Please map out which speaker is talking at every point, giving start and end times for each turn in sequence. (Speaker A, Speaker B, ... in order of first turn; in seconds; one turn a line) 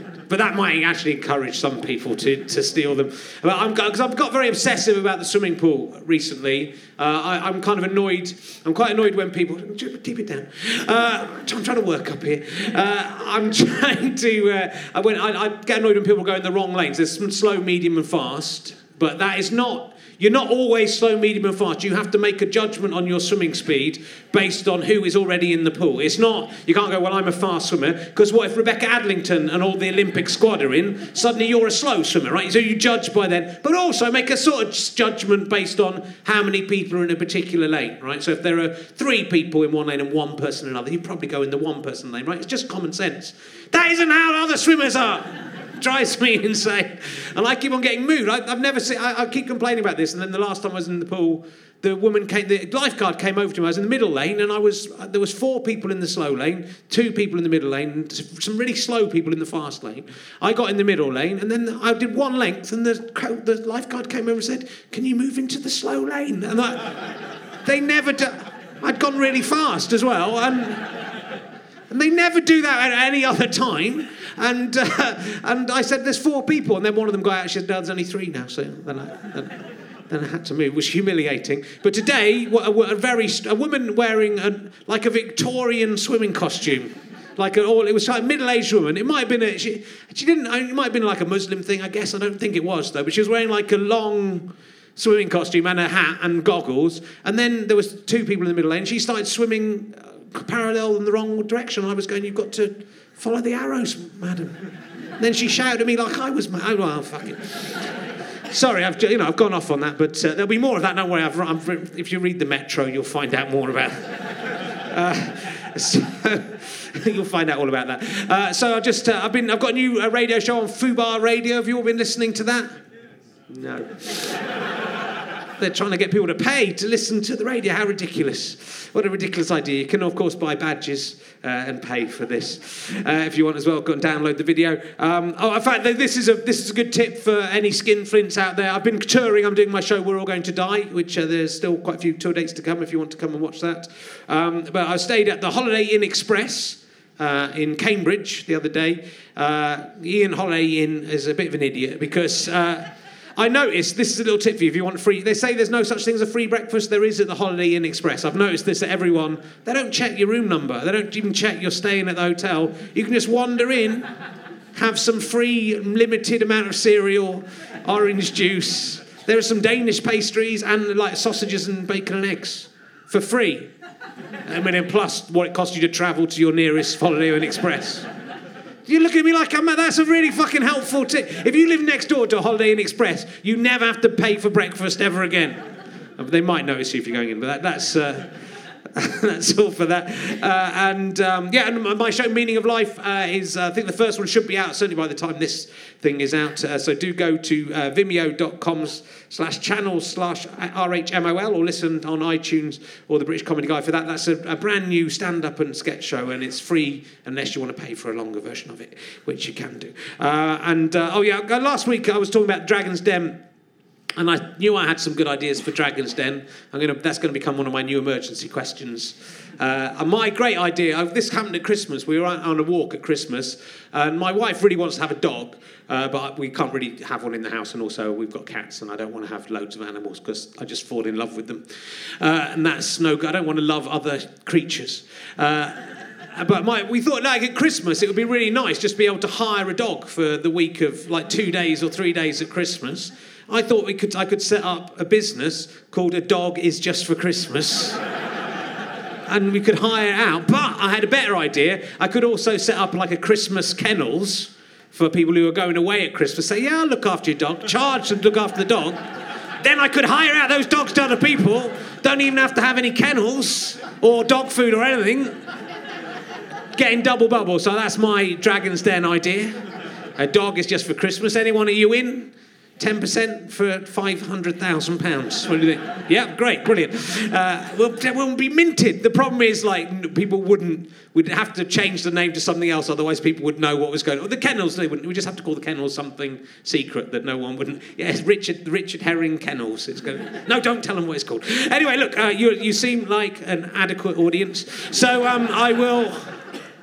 Speaker A: 0.3-67.1
Speaker A: 67.6-70.9
Speaker A: 71.9-104.6
Speaker A: 105.2-107.9
Speaker A: 108.5-122.7
Speaker A: 123.5-124.5
Speaker A: 125.6-164.1
Speaker A: 164.8-173.7
Speaker A: 174.5-178.1
Speaker A: 178.9-185.6
Speaker A: 186.2-188.3
Speaker A: 188.9-213.4
Speaker A: 214.2-248.0
Speaker A: 249.3-259.0
Speaker A: 259.6-265.4
Speaker A: 266.7-269.6
Speaker A: 270.2-296.3